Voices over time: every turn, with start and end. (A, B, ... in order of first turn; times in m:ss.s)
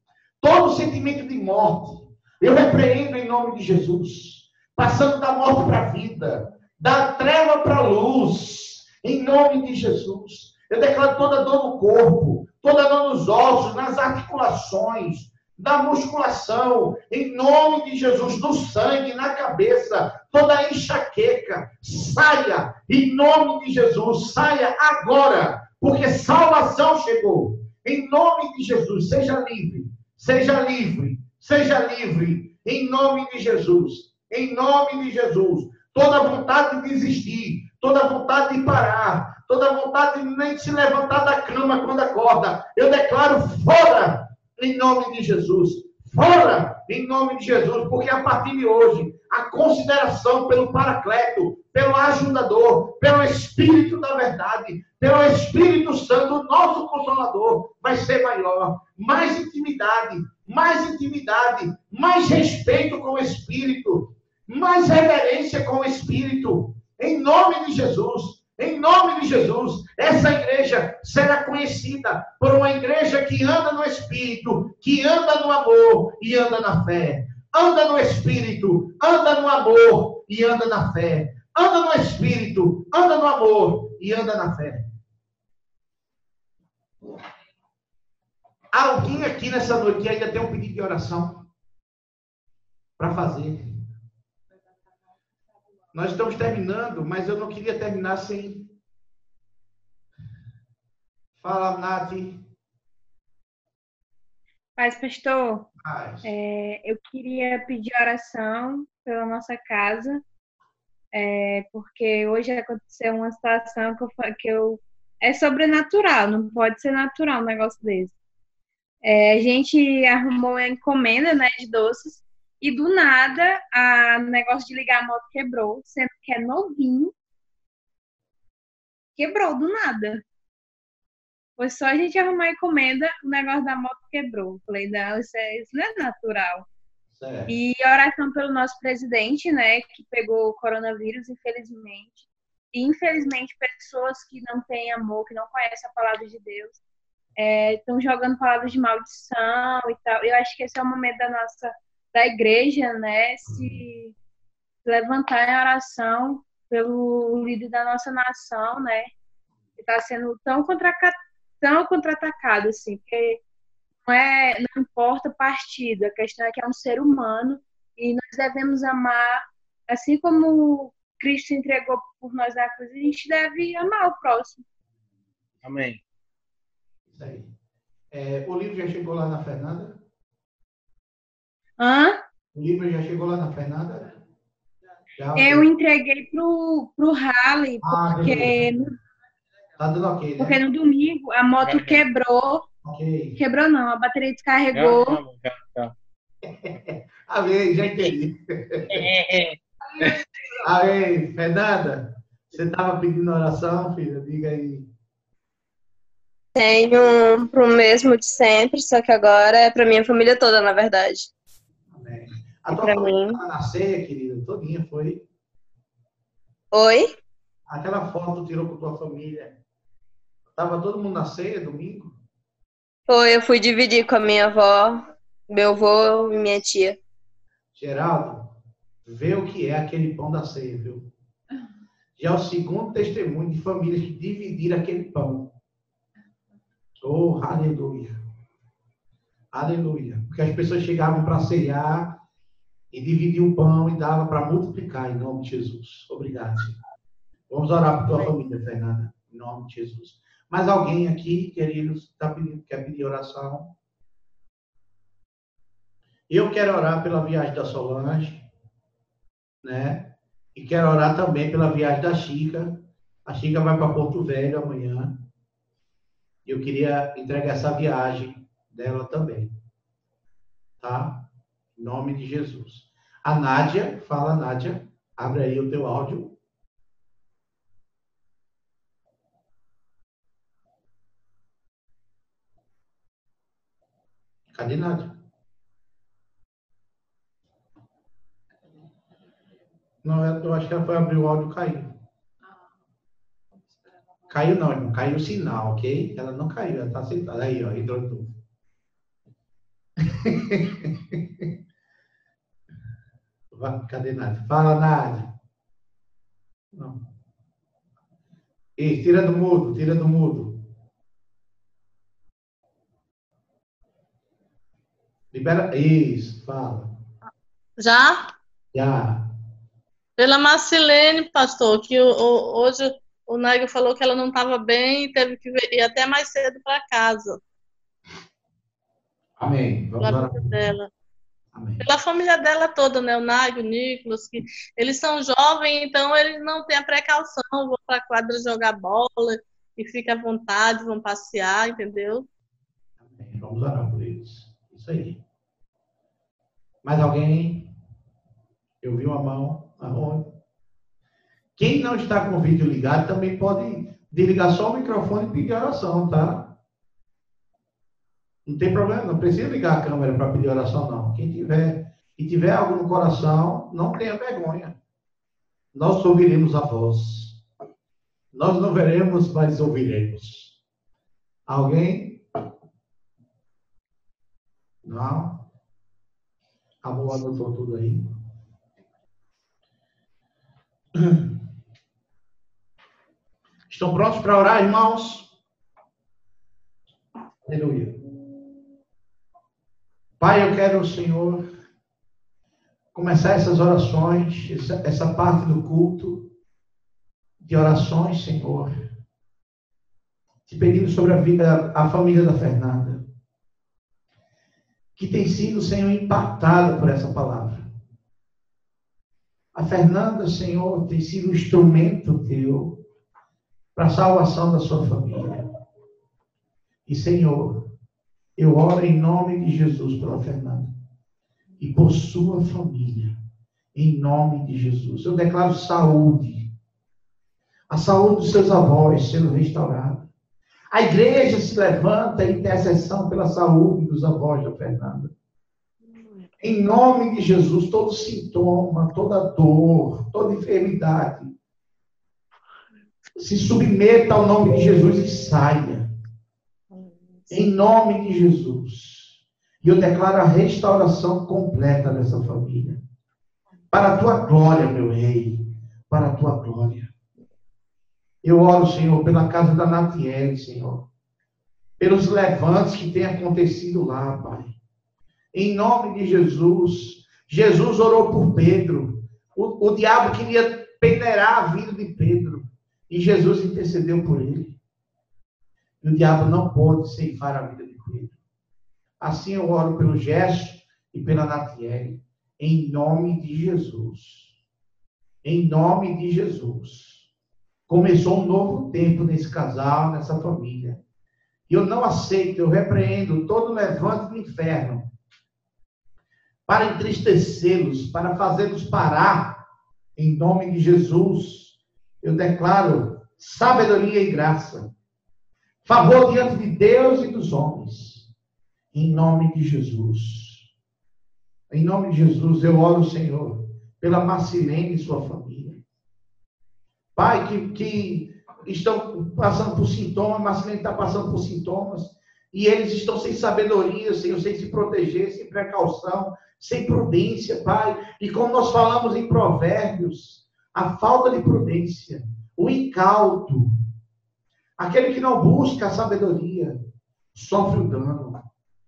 0:00.4-1:24.9 A
1:28.7-1:31.4 A
1:33.0-1:33.6 A
1:35.9-1:38.7 A
1:41.4-1:42.4 A
1:44.8-1:45.7 B
1:45.8-1:46.3 A
1:46.2-1:50.2 B
1:51.1-1:58.1 B
1:59.0-2:07.1 B
2:09.2-2:10.2 B
2:11.6-2:16.7 B
2:17.1-2:17.5 A
2:17.5-2:26.8 B
2:27.4-2:34.1 B
2:34.8-2:39.1 B
2:39.8-2:43.4 B
2:44.0-2:54.6 B
2:55.6-2:56.0 C
2:57.1-2:57.5 A
2:58.1-3:00.0 A
3:01.8-3:02.2 B
3:02.5-3:04.1 A
3:05.2-3:05.7 A
3:05.4-3:09.0 B
3:07.8-3:08.6 A
3:09.8-3:10.6 A
3:10.4-3:12.7 B
3:11.6-3:12.1 C
3:12.8-3:13.4 A
3:13.4-3:15.2 B
3:14.7-3:15.9 C
3:16.5-3:19.1 A
3:18.9-3:20.2 C
3:20.6-3:24.9 A
3:26.6-3:31.3 D
3:31.9-3:35.3 A
3:32.7-3:33.4 D
3:36.7-3:37.1 D
3:37.7-3:39.6 A
3:40.5-3:42.2 A
3:43.1-3:47.0 D
3:47.7-3:51.1 A
3:52.2-3:55.5 A
3:57.0-3:58.2 A
3:59.5-4:02.2 A
4:02.9-4:06.8 A
4:07.5-4:13.7 A
4:16.3-4:18.5 A
4:19.6-4:25.2 A
4:26.4-4:29.5 A
4:30.8-4:36.4 A
4:44.5-4:45.2 A
4:50.0-4:51.9 A
4:54.3-4:58.3 A
5:00.0-5:01.2 A
5:03.5-5:05.3 A
5:06.7-5:07.0 A
5:08.8-5:10.6 A
5:15.3-5:16.9 A
5:17.8-5:18.3 E
5:18.7-5:19.2 A
5:20.2-5:27.4 E
5:29.4-5:30.6 A
5:30.0-5:30.9 E
5:31.5-5:31.8 A
5:31.8-5:42.3 E
5:43.0-5:45.2 A
5:46.8-5:47.7 A
5:48.8-5:50.4 A
5:51.6-5:56.6 A
5:58.4-6:04.8 A
6:05.7-6:07.4 A
6:08.3-6:10.6 A
6:11.5-6:12.2 A
6:14.8-6:15.5 A
6:16.8-6:18.1 A
6:21.0-6:21.3 A
6:23.7-6:25.3 A
6:27.4-6:28.0 A
6:30.2-6:31.4 A
6:32.9-6:36.3 A
6:37.4-6:38.7 A
6:40.5-6:43.1 A
6:45.0-6:47.7 A
6:49.5-6:52.8 A
6:53.8-6:55.5 A
6:56.9-6:57.7 A
6:58.4-7:00.7 A
7:01.6-7:03.2 A
7:03.7-7:06.5 A
7:07.7-7:10.1 A
7:10.7-7:15.1 A
7:16.4-7:21.3 A
7:23.2-7:25.9 A
7:27.3-7:32.8 A
7:33.7-7:36.9 A
7:38.2-7:40.9 A
7:41.8-7:44.6 A
7:45.3-7:54.6 A
7:55.8-7:58.2 A
7:59.0-8:04.3 A
8:05.2-8:07.1 A
8:07.7-8:10.8 A
8:11.5-8:14.9 A
8:16.5-8:19.4 A
8:20.0-8:24.7 A
8:25.6-8:28.1 A
8:28.7-8:30.5 A
8:31.5-8:35.6 A
8:37.0-8:53.5 A
8:54.6-8:56.6 A
8:57.1-8:58.2 A